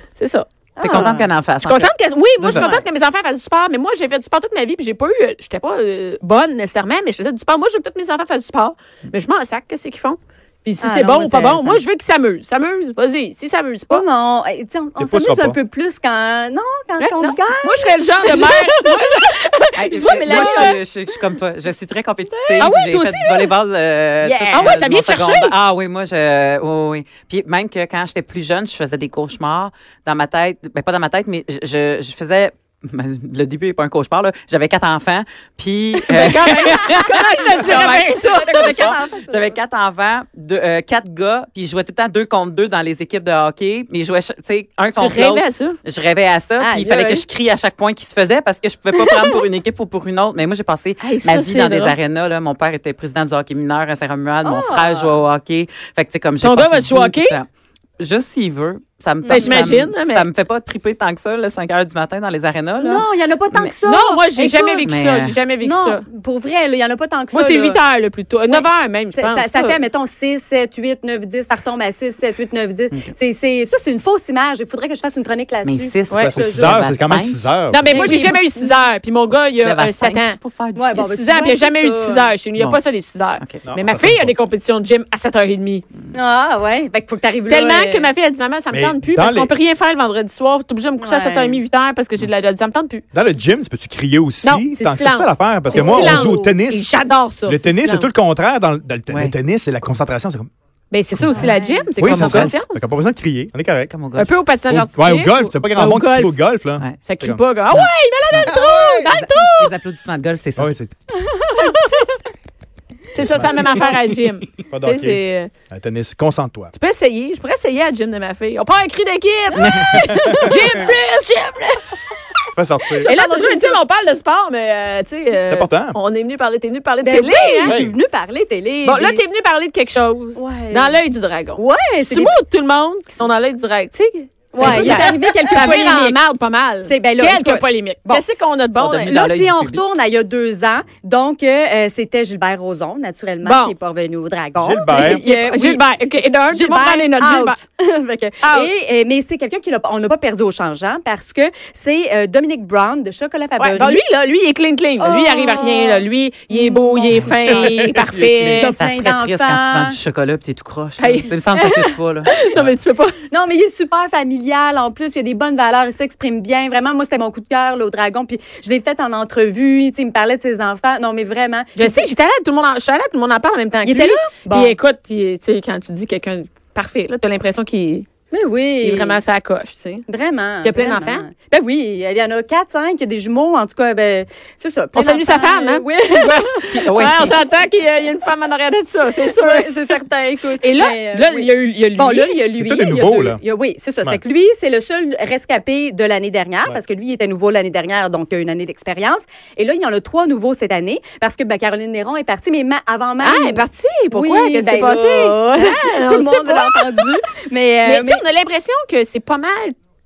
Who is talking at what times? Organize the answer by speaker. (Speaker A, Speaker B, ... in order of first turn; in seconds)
Speaker A: 0.2-14.0, 17.0-20.8, 22.6-23.5, 24.4-25.5, 36.0-39.0, 45.0-45.8, 51.0-52.0, 56.4-57.4, 59.3-60.3, 63.8-66.0, 67.3-69.8, 76.1-76.3, 77.7-80.4, 80.9-85.8, 87.5-93.0, 94.4-98.1, 100.9-102.7, 104.2-106.4, 107.0-109.7, 111.5-112.1, 113.1-115.5, 116.7-121.8, 123.0-127.8, 128.8-139.1, 143.4-143.8, 144.9-147.6, 148.4-148.7, 153.6-158.7, 161.0-161.4, 162.3-163.1, 171.8-178.1, 178.8-180.1, 180.6-181.3, 184.9-190.0, 190.6-192.4, 203.2-207.2, 207.8-209.8
Speaker B: 0.8-1.3, 2.5-2.8, 10.8-11.8, 13.9-20.8, 24.2-24.8, 37.5-39.6, 46.6-47.2, 49.0-49.4, 54.5-55.1, 59.2-59.7, 62.8-64.9, 65.6-67.8, 68.5-76.8, 77.9-78.8, 80.8-82.3, 86.1-88.1, 91.0-91.6, 95.7-96.3, 101.3-102.0, 108.7-109.5, 111.2-112.1, 119.5-120.3, 123.0-123.8, 127.0-129.2, 130.4-131.0, 131.6-132.4, 134.5-136.2, 136.8-138.2, 139.0-145.8, 146.5-154.0, 155.0-157.9, 158.5-160.0, 161.6-161.9, 163.3-172.1, 173.8-174.8, 178.3-179.2, 180.1-186.6, 189.2-208.2
Speaker C: 0.8-2.7, 19.8-63.7, 64.8-65.4, 75.6-77.4, 79.4-81.1, 99.1-99.3, 102.0-102.6, 103.9-104.3, 107.7-108.5, 109.6-110.7, 113.5-113.9, 119.6-119.9, 134.6-134.9, 138.8-139.8, 158.4-162.3, 186.7-187.4
Speaker D: 15.0-15.6, 76.2-78.3, 83.7-84.3, 88.7-89.5, 93.1-100.5, 101.1-101.5, 102.0-103.9, 104.7-107.4, 108.5-109.2, 110.6-110.9, 113.2-113.5, 114.7-116.7, 120.1-120.6, 122.5-123.1, 125.5-126.0, 127.7-127.9, 144.6-145.2, 157.7-158.3, 192.5-193.4